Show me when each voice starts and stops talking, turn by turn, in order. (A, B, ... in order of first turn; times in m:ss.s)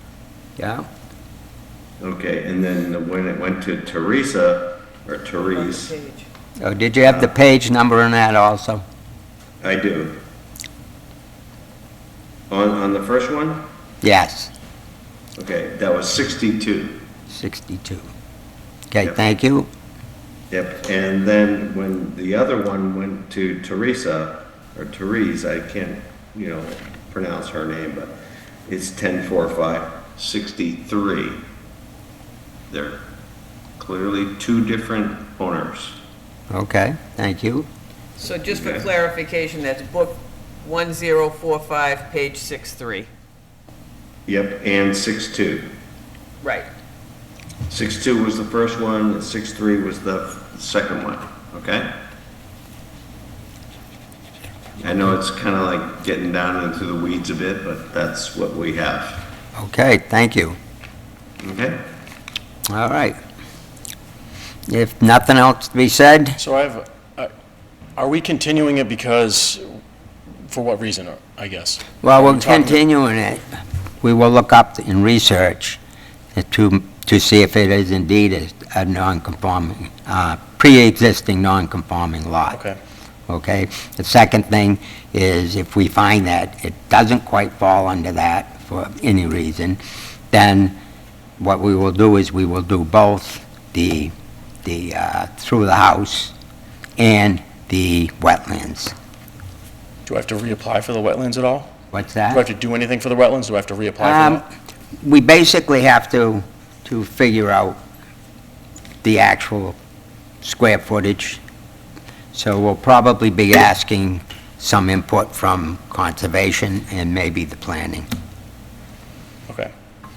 0:00.6-0:00.8 A
0:02.0-0:05.9 B
0:05.5-0:06.3 C
0:06.6-0:08.8 A
0:07.0-0:07.3 B
0:09.6-0:10.2 B
0:12.5-0:13.6 B
0:14.0-0:14.5 A
0:15.4-0:17.0 B
0:17.3-0:18.1 A
0:18.9-0:19.7 A
0:20.5-0:28.1 B
0:28.7-0:31.4 B
0:32.7-0:33.0 B
0:33.8-0:36.0 B
0:36.5-0:37.7 A
0:38.2-0:43.1 C
0:38.5-0:38.9 B
0:44.3-0:45.7 B
0:46.4-0:46.7 C
0:47.7-0:51.9 B
0:54.8-0:59.2 B
0:59.6-1:00.6 A
1:01.4-1:01.8 B
1:02.7-1:03.2 A
1:04.7-1:06.4 A
1:06.4-1:07.3 D
1:08.0-1:09.7 D
1:10.4-1:12.8 D
1:12.0-1:13.4 A
1:14.0-1:15.8 A
1:16.3-1:22.6 A
1:22.5-1:22.8 D
1:23.3-1:29.8 A
1:30.3-1:30.8 A
1:31.4-1:34.1 A
1:34.6-1:36.3 A
1:37.0-1:38.9 A
1:40.0-1:41.7 D
1:41.9-1:42.4 A
1:42.3-1:44.5 D
1:44.0-1:44.4 A
1:45.0-1:47.8 A
1:49.0-1:49.8 A
1:50.4-1:51.4 A
1:52.3-1:58.0 A